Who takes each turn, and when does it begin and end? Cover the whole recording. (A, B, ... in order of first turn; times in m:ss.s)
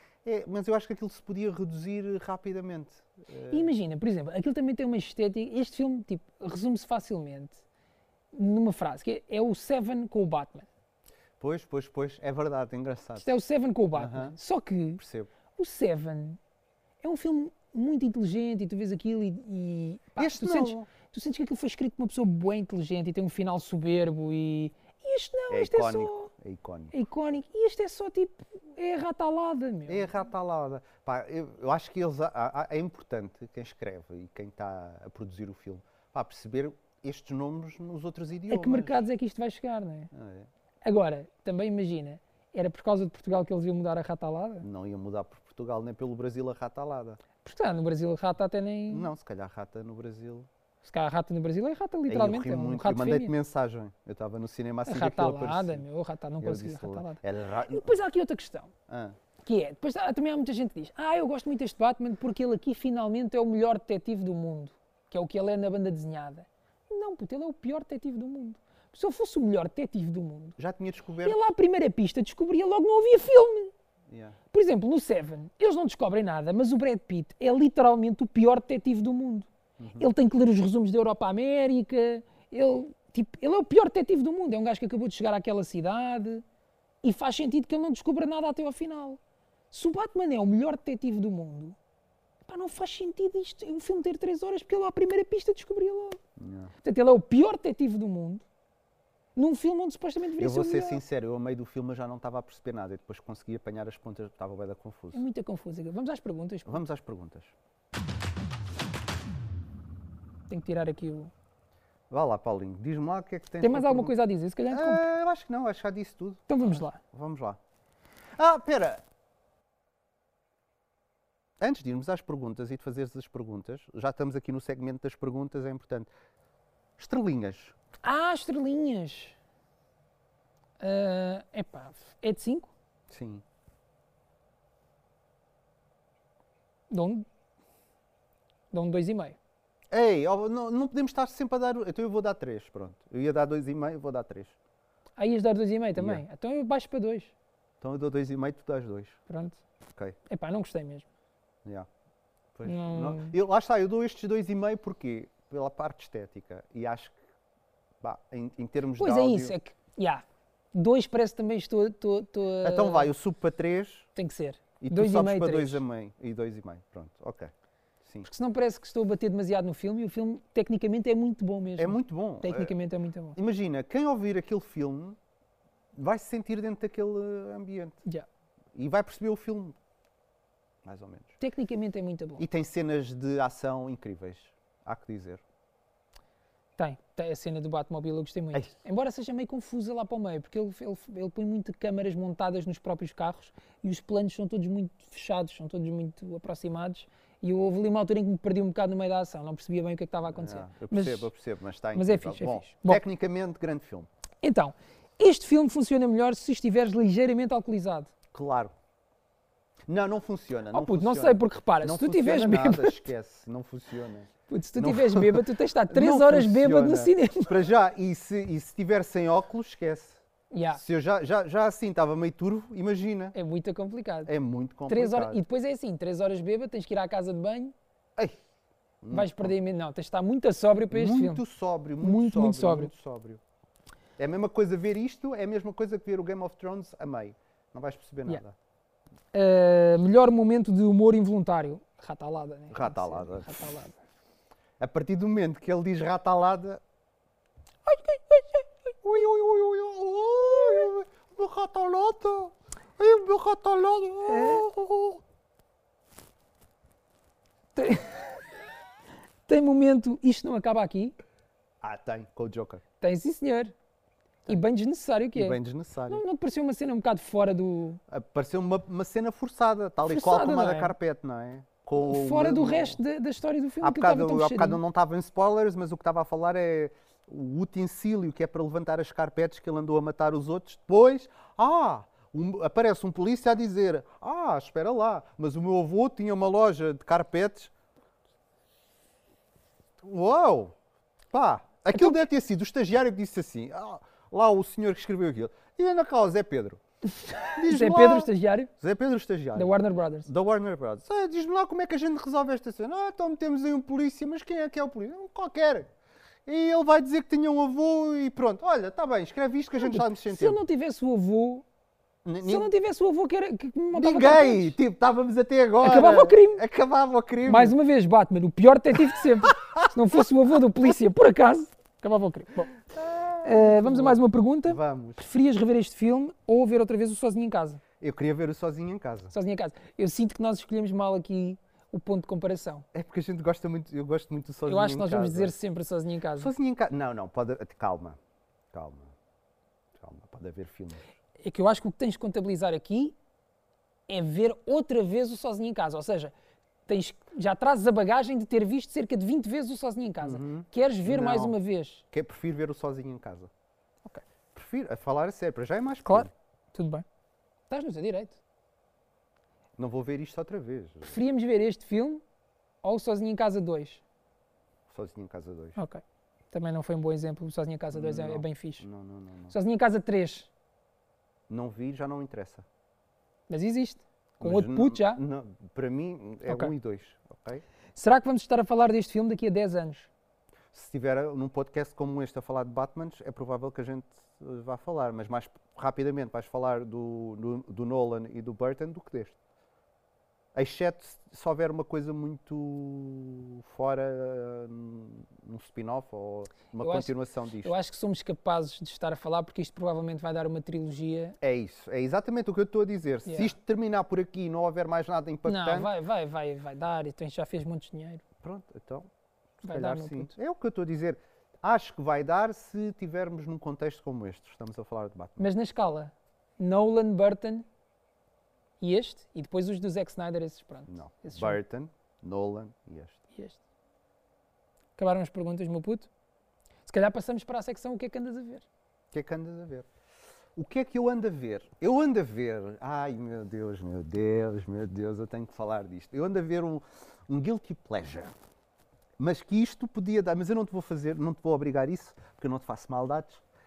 0:00.2-0:03.7 A
0:03.5-0:07.6 B
0:08.3-0:10.7 B
0:11.4-0:13.3 A
0:13.2-0:15.0 B
0:14.0-0:14.4 A
0:15.0-0:15.3 A
0:15.6-0:16.4 B
0:17.0-0:26.3 B
0:20.2-0:20.9 A
0:25.5-0:26.9 A
0:26.9-0:30.1 B
0:29.9-0:39.0 A
0:38.5-0:40.1 B
0:40.1-0:40.5 A
0:40.8-0:44.7 B
0:44.6-0:47.2 A
0:47.4-0:49.1 B
0:48.9-0:50.5 A
0:50.8-0:53.3 B
0:52.1-0:55.8 A
0:54.9-0:58.7 B
0:56.4-0:57.9 A
0:58.9-0:59.2 A
0:59.4-1:10.6 B
1:10.6-1:11.4 A
1:11.2-1:13.7 B
1:14.1-1:14.4 A
1:14.5-1:26.4 B
1:19.8-1:20.1 A
1:27.0-1:29.2 B
1:29.7-1:31.8 B
1:32.5-1:36.2 B
1:36.4-1:36.7 A
1:36.8-1:38.4 B
1:39.4-1:41.0 B
1:40.4-1:45.2 A
1:45.1-1:46.8 B
1:46.7-1:47.5 A
1:50.5-1:51.3 B
1:52.1-1:54.1 A
1:53.6-1:55.0 B
1:54.7-1:57.6 A
1:56.5-1:57.0 B
1:58.4-1:59.0 A
2:01.6-2:06.1 A
2:07.0-2:07.8 A
2:08.0-2:09.4 B
2:10.8-2:12.7 B
2:13.1-2:13.4 A
2:16.9-2:17.3 B
2:18.7-2:19.4 B
2:19.9-2:24.6 A
2:25.2-2:27.3 B
2:26.0-2:26.2 A
2:27.8-2:29.2 A
2:29.3-2:29.6 B
2:30.3-2:31.1 B
2:32.6-2:37.2 A
2:32.7-2:33.4 B
2:38.0-2:39.6 A
2:39.0-2:43.1 B
2:42.6-2:44.1 A
2:44.2-2:45.8 B
2:44.8-2:47.5 A
2:48.2-2:53.4 B
2:51.8-2:52.7 A
2:53.4-2:55.2 A
2:56.0-2:58.0 A
2:58.8-2:59.8 A
3:00.8-3:01.4 A
3:01.4-3:02.4 B
3:02.4-3:05.4 A
3:06.8-3:21.3 B
3:20.3-3:24.1 A
3:22.0-3:23.0 B
3:24.4-3:28.1 B
3:28.3-3:28.7 A
3:29.9-3:43.4 A
3:30.7-3:33.1 B
3:34.5-3:37.6 B
3:40.5-3:40.8 B
3:43.4-3:44.3 B
3:44.3-3:45.4 A
3:44.9-3:47.7 B
3:49.0-3:49.6 A
3:49.1-3:51.4 B
3:50.9-3:53.4 A
3:52.0-3:52.9 B
3:54.2-3:58.6 A
3:59.3-4:04.0 B
4:02.7-4:03.6 A
4:04.8-4:06.8 A
4:07.9-4:08.7 B
4:09.0-4:15.2 A
4:14.3-4:14.6 B
4:17.8-4:18.4 B
4:19.5-4:21.2 B
4:21.8-4:22.8 A
4:23.0-4:23.7 B
4:24.5-4:25.6 B
4:25.4-4:26.2 A
4:26.1-4:28.0 B
4:28.1-4:33.0 A
4:30.0-4:31.0 B
4:32.0-4:34.8 B
4:33.8-4:47.7 A
4:50.0-4:50.7 A
4:51.3-4:56.8 A
4:51.9-4:52.2 B
4:57.3-4:58.7 B
4:57.5-5:05.9 A
4:59.6-5:00.3 B
5:06.5-5:10.6 A
5:09.8-5:11.6 B
5:12.2-5:12.7 A
5:12.4-5:14.8 B
5:13.9-5:17.8 A
5:15.8-5:16.6 B
5:17.5-5:22.7 B
5:19.6-5:19.9 A
5:22.9-5:25.2 A
5:23.4-5:27.8 B
5:28.0-5:29.3 A
5:29.3-5:32.9 B
5:32.9-5:35.5 A
5:34.7-5:36.5 B
5:36.4-5:38.2 A
5:38.7-5:39.1 A
5:40.0-5:41.1 A
5:41.4-5:43.2 B
5:44.1-5:46.3 B
5:46.9-5:52.0 B
5:50.2-5:51.6 A
5:52.1-5:53.5 A
5:54.5-5:56.3 A
5:56.1-5:57.0 B
5:57.7-5:58.4 B
5:59.8-6:01.2 A
6:01.1-6:02.2 B
6:02.8-6:04.0 B
6:04.9-6:05.8 A
6:05.8-6:08.8 B
6:07.9-6:09.6 A
6:09.5-6:10.5 B
6:11.5-6:12.6 A
6:13.5-6:15.2 B
6:14.4-6:17.6 A
6:16.5-6:16.7 B
6:18.0-6:20.1 B
6:20.7-6:29.4 A
6:30.6-6:37.7 A
6:36.8-6:41.4 B
6:41.4-6:45.9 A
6:43.3-6:43.6 B
6:45.5-6:48.2 B
6:48.4-6:49.1 A
6:49.6-6:55.5 A
6:49.6-6:50.3 B
6:55.4-6:57.7 B
6:58.8-7:01.6 B
7:00.9-7:03.2 A
7:03.3-7:03.6 B
7:05.0-7:06.1 B
7:06.9-7:08.7 B
7:09.1-7:09.9 A
7:10.6-7:18.3 A
7:19.2-7:23.4 A